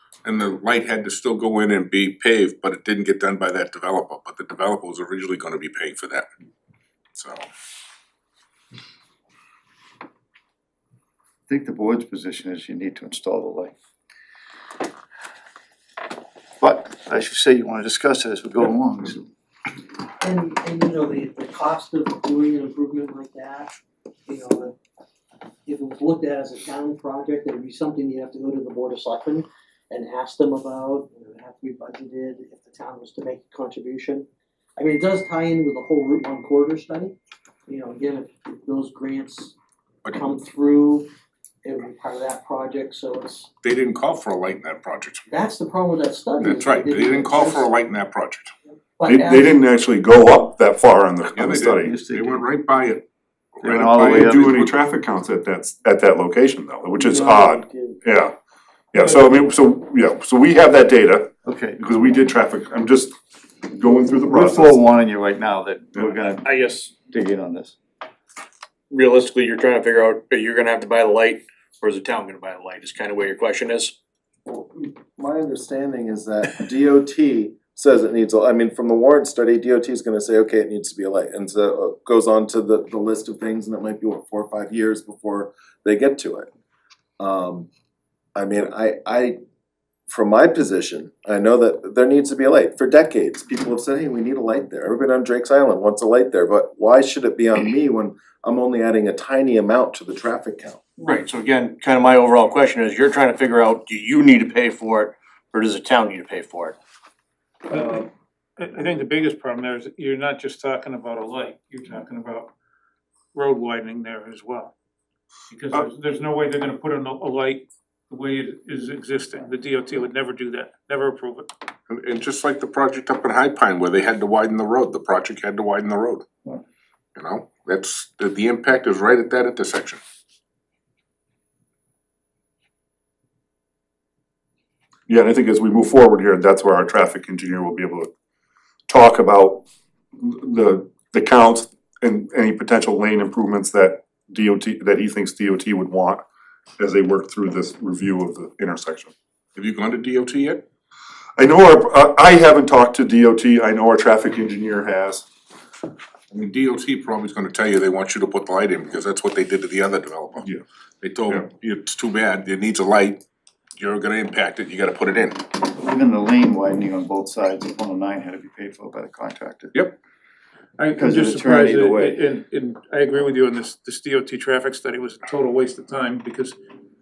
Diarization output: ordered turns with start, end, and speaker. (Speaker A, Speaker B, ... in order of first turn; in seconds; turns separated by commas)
Speaker A: 0.2-6.3, Speaker A: 7.1-7.4, Speaker B: 11.5-13.7, Speaker B: 16.6-19.3, Speaker C: 20.2-23.7, Speaker C: 24.2-24.7, Speaker C: 25.6-37.1, Speaker C: 37.7-39.5, Speaker C: 40.1-41.1, Speaker C: 41.6-43.5, Speaker A: 43.6-45.2, Speaker C: 45.3-47.7, Speaker A: 46.4-48.5, Speaker C: 49.0-49.6, Speaker D: 49.0-51.9, Speaker A: 51.3-54.7, Speaker B: 51.8-52.4, Speaker B: 53.6-54.5, Speaker D: 53.9-58.3, Speaker E: 57.0-58.0, Speaker D: 58.9-63.2, Speaker B: 61.4-61.8, Speaker D: 63.7-64.8, Speaker B: 64.2-67.7, Speaker F: 66.4-66.9, Speaker F: 68.9-74.0, Speaker E: 74.5-86.5, Speaker E: 87.2-87.7, Speaker E: 88.3-89.4, Speaker E: 90.1-100.8, Speaker F: 101.0-106.8, Speaker G: 107.7-112.5, Speaker G: 113.3-114.7, Speaker G: 115.5-121.5, Speaker A: 121.9-126.3, Speaker A: 127.2-130.0, Speaker D: 135.1-138.1, Speaker D: 138.9-139.6, Speaker D: 140.2-146.2, Speaker D: 146.8-149.1, Speaker A: 149.6-150.6, Speaker D: 151.4-155.2, Speaker A: 156.3-160.5, Speaker A: 161.0-163.2, Speaker A: 163.8-165.5, Speaker B: 165.8-169.8, Speaker G: 170.8-176.6, Speaker B: 170.9-172.2